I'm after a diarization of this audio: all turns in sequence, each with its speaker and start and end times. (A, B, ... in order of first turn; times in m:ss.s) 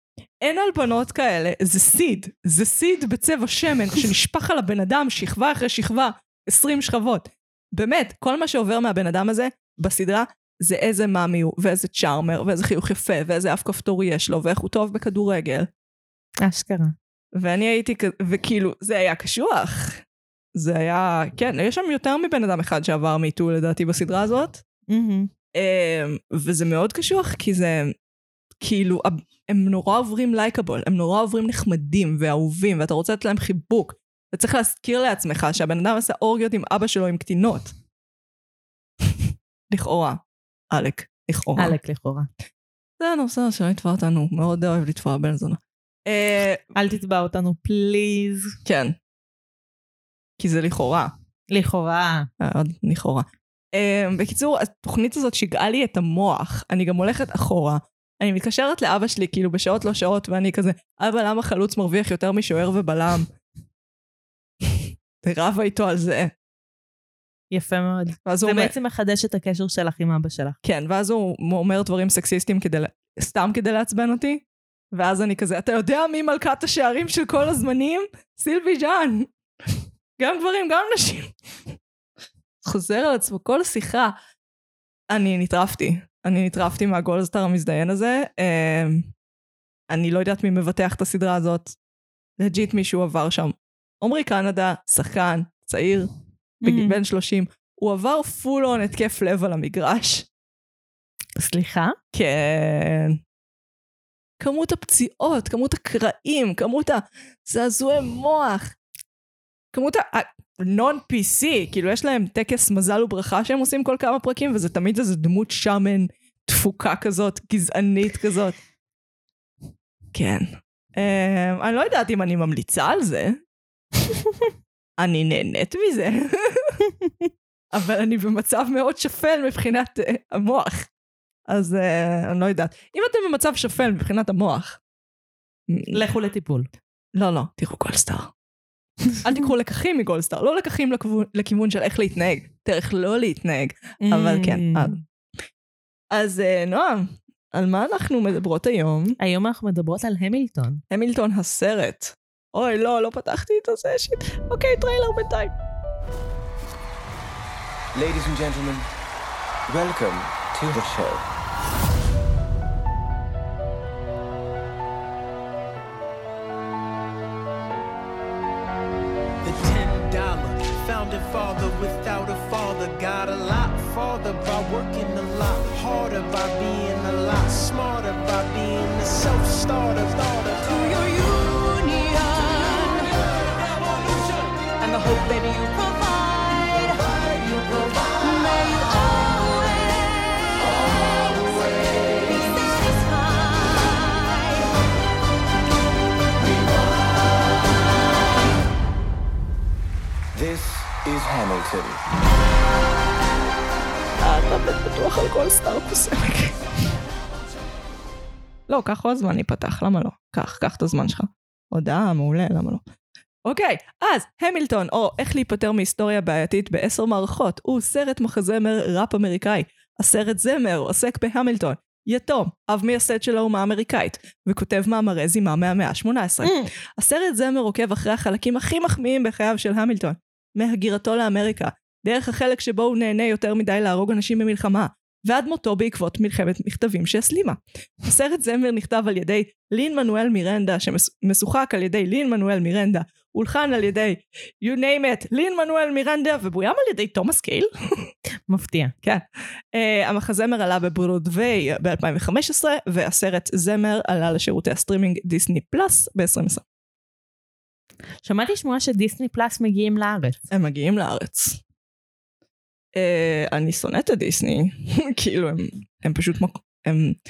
0:00.4-0:15.7 A
0:16.4-0:17.0 B
0:17.4-0:20.0 A
0:20.6-0:24.6 A
0:24.9-0:25.3 B
0:25.6-0:28.0 A
0:28.6-0:37.7 A
0:39.7-0:41.8 A
0:41.6-0:42.3 B
0:43.0-0:46.6 A
0:46.7-0:48.6 B
0:48.6-0:49.0 A
0:50.4-0:51.1 A
0:51.5-0:52.3 B
0:52.4-1:03.3 A
1:05.2-1:06.3 A
1:07.5-1:10.6 B
1:08.3-1:08.7 A
1:10.6-1:19.3 A
1:20.2-1:21.3 A
1:22.6-1:24.1 A
1:25.1-1:29.1 A
1:29.9-1:31.8 A
1:32.4-1:36.1 A
1:36.6-1:40.3 A
1:36.6-1:37.0 B
1:41.4-1:42.0 B
1:42.1-1:43.2 A
1:44.4-1:48.7 A
1:49.7-1:58.6 A
2:00.1-2:03.4 A
2:05.0-2:06.8 A
2:07.7-2:10.9 A
2:11.5-2:14.8 A
2:15.7-2:16.0 A
2:15.9-2:16.7 B
2:17.2-2:18.3 A
2:19.2-2:25.0 A
2:24.0-2:25.0 B
2:26.1-2:29.2 A
2:29.2-2:30.8 B
2:30.9-2:35.5 A
2:37.9-2:38.9 C
2:39.7-2:41.3 C
2:49.4-3:00.9 D
3:00.7-3:14.7 E
3:20.3-3:22.0 C
3:24.2-3:26.6 A
3:28.7-3:32.8 A
3:33.4-4:08.1 A
3:46.4-3:46.7 B
4:08.5-4:08.9 B
4:09.0-4:16.6 A
4:18.2-4:20.4 B
4:20.5-4:21.6 A
4:23.0-4:27.2 A